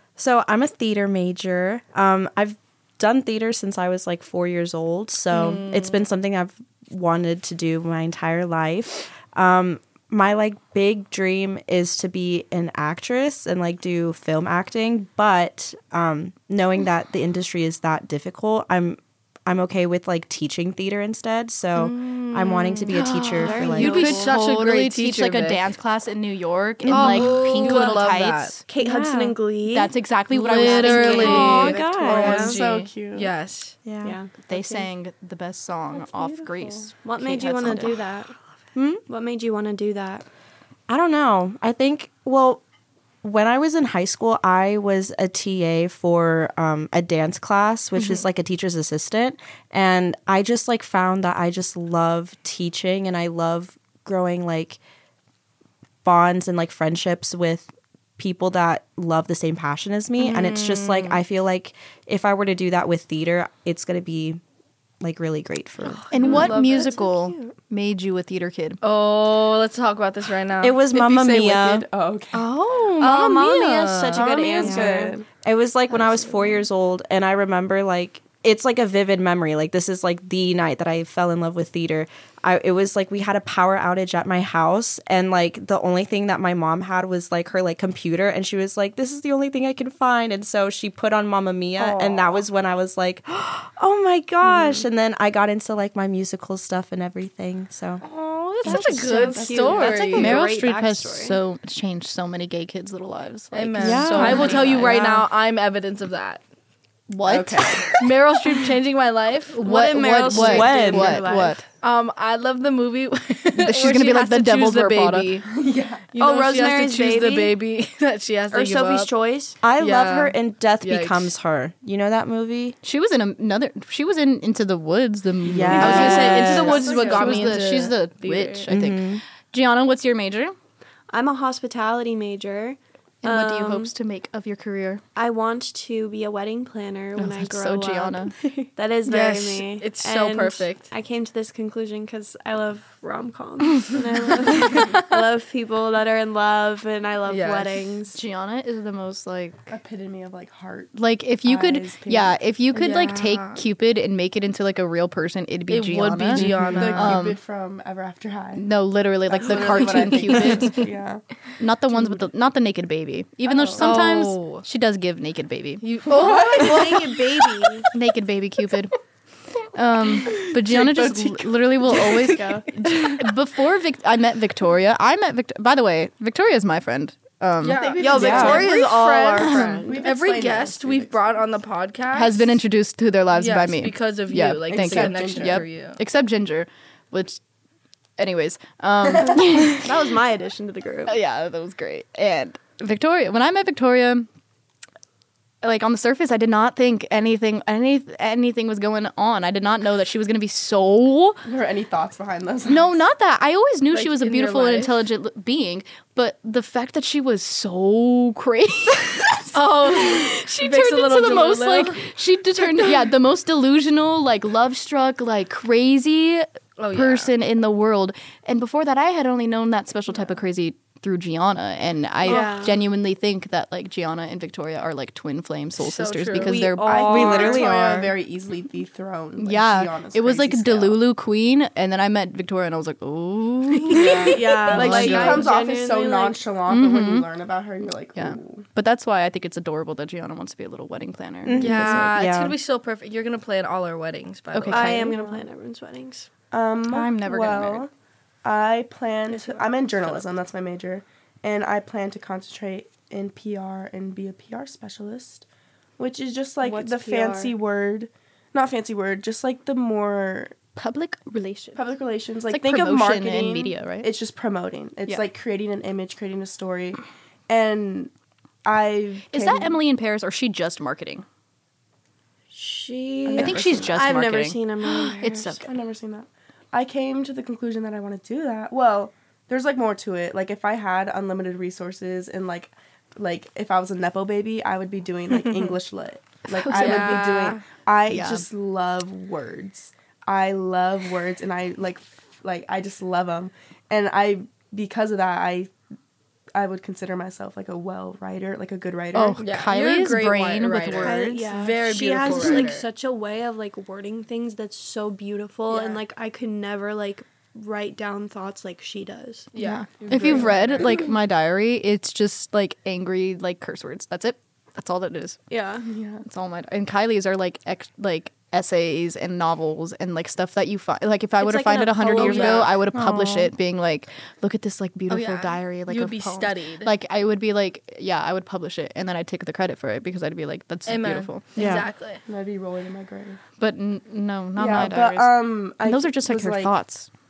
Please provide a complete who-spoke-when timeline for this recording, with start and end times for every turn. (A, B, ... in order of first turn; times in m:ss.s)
0:00.2-0:24.2 A
0:05.3-0:06.0 B
0:21.8-0:25.6 B
0:23.0-0:24.3 C
0:23.8-0:28.6 D
0:26.8-0:27.5 A
0:26.9-0:28.6 B
0:28.7-0:32.6 C
0:28.8-0:29.3 A
0:29.7-0:31.7 D
0:30.4-0:33.8 B
0:31.0-0:32.4 A
0:32.0-0:33.3 E
0:33.8-0:34.2 A
0:34.0-0:34.3 C
0:34.4-0:38.0 D
0:35.9-0:36.9 E
0:37.0-0:38.3 C
0:38.8-0:39.0 A
0:39.1-0:40.2 C
0:40.9-0:42.6 A
0:43.2-0:54.8 A
0:56.0-1:04.4 A
1:00.2-1:01.2 B
1:05.0-1:06.5 A
1:06.1-1:07.0 B
1:06.1-1:08.8 D
1:06.3-1:06.8 E
1:06.3-1:07.5 C
1:08.8-1:11.6 B
1:10.6-1:11.9 A
1:11.0-1:12.5 E
1:12.3-1:14.3 B
1:13.0-1:15.2 C
1:14.1-1:15.2 E
1:14.6-1:38.0 A
1:31.8-1:32.4 B
1:38.0-1:40.4 B
1:38.6-1:39.4 A
1:38.7-1:41.4 C
1:39.4-1:40.0 E
1:40.1-1:45.2 D
1:43.5-1:46.4 B
1:43.8-1:44.9 A
1:44.3-1:44.6 C
1:47.1-1:47.8 D
1:47.3-1:48.0 E
1:48.0-1:49.6 B
1:49.6-1:51.6 C
1:49.6-1:51.6 D
1:50.4-1:51.2 A
1:51.8-1:55.5 B
1:53.6-1:55.3 D
1:55.5-1:56.1 E
1:56.1-1:59.1 B
1:56.2-1:57.6 C
1:58.5-1:59.6 C
1:59.6-2:02.8 A
1:59.8-2:01.3 B
2:02.8-2:10.6 D
2:05.4-2:06.8 A
2:05.7-2:07.7 E
2:05.8-2:08.7 B
2:06.0-2:07.2 C
2:08.7-2:09.2 A
2:11.1-2:13.9 C
2:13.2-2:15.0 D
2:15.2-2:28.2 C
2:17.2-2:18.3 D
2:19.1-2:20.9 B
2:27.3-2:27.8 B
2:28.1-2:29.7 D
2:29.7-2:33.1 E
2:30.9-2:37.4 D
2:32.8-2:33.6 B
2:35.7-2:37.2 B
2:36.4-2:38.7 E
2:38.6-2:40.8 D
2:39.3-2:41.2 E
2:39.7-2:40.8 B
2:41.6-2:45.8 D
2:43.5-2:44.1 E
2:43.8-2:44.6 B
2:45.8-2:47.2 B
2:46.1-2:47.2 E
2:46.3-2:47.9 C
2:47.9-2:48.9 D
2:49.7-2:57.9 D
2:50.4-2:52.4 E
2:52.3-2:52.6 C
2:52.9-2:53.2 B
2:57.6-3:02.6 B
2:57.7-2:58.8 E
2:58.0-3:00.0 C
2:58.2-2:58.6 A
2:59.4-3:01.5 E
2:59.5-2:59.8 D
3:02.1-3:07.4 D
3:03.3-3:06.0 B
3:04.7-3:05.6 E
3:08.2-3:09.9 D
3:09.7-3:11.1 C
3:11.1-3:14.3 D
3:15.6-3:21.4 D
3:21.4-3:23.0 E
3:22.7-3:47.6 D
3:23.9-3:24.9 B
3:29.5-3:32.1 B
3:32.6-3:33.0 B
3:36.8-3:37.3 B
3:42.2-3:42.8 C
3:45.8-3:46.6 B
3:46.4-3:48.1 C
3:46.8-3:51.0 E
3:47.1-3:48.1 A
3:49.4-3:55.5 D
3:53.9-3:56.4 C
3:54.0-3:58.7 E
3:54.7-3:55.5 B
3:56.7-3:57.3 D
3:58.2-4:01.7 D
4:01.4-4:02.6 A
4:01.6-4:05.2 B
4:04.5-4:05.1 D
4:04.7-4:06.3 C
4:04.9-4:05.4 E
4:06.5-4:07.9 E
4:06.9-4:07.9 D
4:08.4-4:15.5 E
4:16.0-4:20.6 E
4:16.6-4:17.6 C
4:20.8-4:21.8 D
4:21.8-4:28.1 E
4:22.5-4:24.1 D
4:28.6-4:29.8 E
4:29.3-4:31.3 D
4:32.5-4:35.7 C
4:33.3-4:33.9 E
4:33.3-4:35.6 D
4:35.6-4:55.7 E
4:45.3-4:45.8 B
4:46.6-4:47.4 D
4:46.7-4:47.6 B
4:48.1-4:48.5 D
4:56.5-4:59.4 E
4:59.1-5:01.5 D
4:59.4-5:02.8 B
5:00.9-5:09.5 C
5:02.3-5:02.6 D
5:05.7-5:06.0 E
5:09.6-5:11.0 B
5:09.6-5:15.4 D
5:10.1-5:11.0 E
5:15.5-5:15.9 C
5:15.9-5:16.2 E
5:16.2-5:31.5 D
5:21.4-5:22.8 C
5:22.1-5:22.7 B
5:22.9-5:23.5 A
5:25.1-5:26.9 B
5:30.9-5:32.2 B
5:31.6-5:31.9 A
5:32.3-5:33.4 E
5:33.6-5:37.1 D
5:34.6-5:36.7 E